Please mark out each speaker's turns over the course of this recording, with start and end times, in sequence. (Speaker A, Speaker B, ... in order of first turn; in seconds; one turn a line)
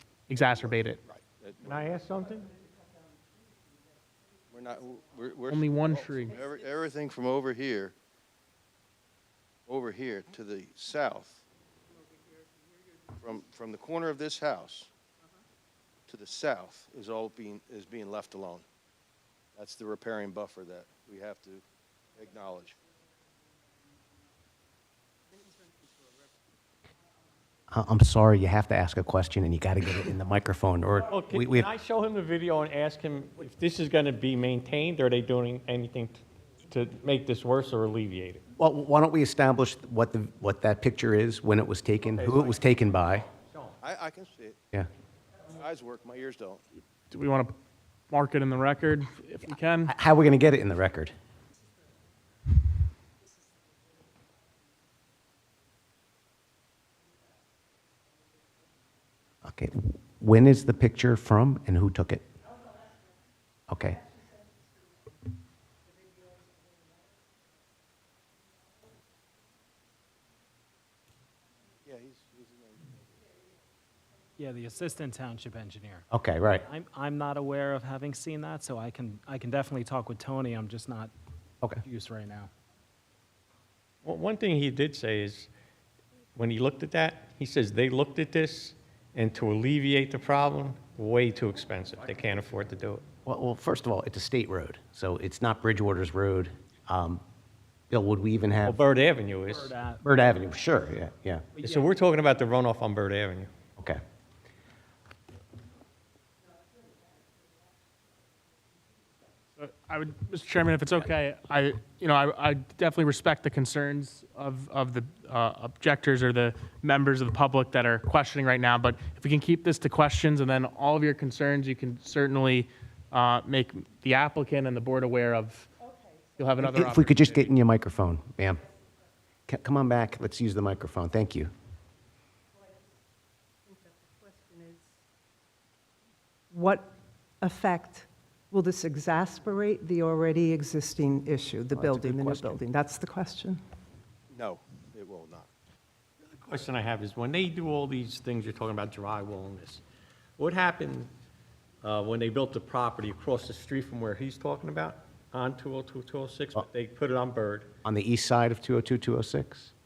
Speaker A: 0.3-1.0
Speaker B: 0.4-1.9
Speaker C: 1.6-2.5
Speaker B: 4.5-7.9
Speaker A: 5.5-6.4
Speaker B: 9.7-11.4
Speaker B: 13.2-14.9
Speaker B: 16.1-18.6
Speaker B: 19.6-21.6
Speaker B: 22.1-22.8
Speaker D: 27.7-31.7
Speaker C: 31.1-38.4
Speaker D: 38.6-43.3
Speaker C: 42.0-42.6
Speaker C: 43.3-43.8
Speaker B: 43.8-44.6
Speaker B: 45.5-46.6
Speaker A: 47.1-47.5
Speaker A: 48.1-49.9
Speaker D: 49.9-51.1
Speaker D: 59.4-62.2
Speaker D: 63.7-64.0
Speaker B: 71.8-72.9
Speaker E: 74.4-76.1
Speaker D: 76.1-76.6
Speaker E: 76.6-81.1
Speaker E: 81.8-82.5
Speaker C: 84.0-85.5
Speaker C: 86.3-93.0
Speaker D: 93.2-97.2
Speaker D: 97.9-98.8
Speaker C: 98.6-99.8
Speaker E: 99.4-100.0
Speaker D: 100.0-101.5
Speaker C: 101.6-103.5
Speaker E: 101.6-101.8
Speaker A: 109.6-125.7
Speaker A: 126.4-127.5
Speaker D: 126.6-128.6
Speaker D: 129.5-131.5
Speaker F: 133.7-134.9
Speaker F: 136.5-143.6
Speaker D: 141.7-142.6
Speaker B: 144.3-145.5
Speaker C: 146.2-149.8
Speaker C: 150.4-151.1
Speaker C: 151.8-157.7
Speaker D: 157.8-159.7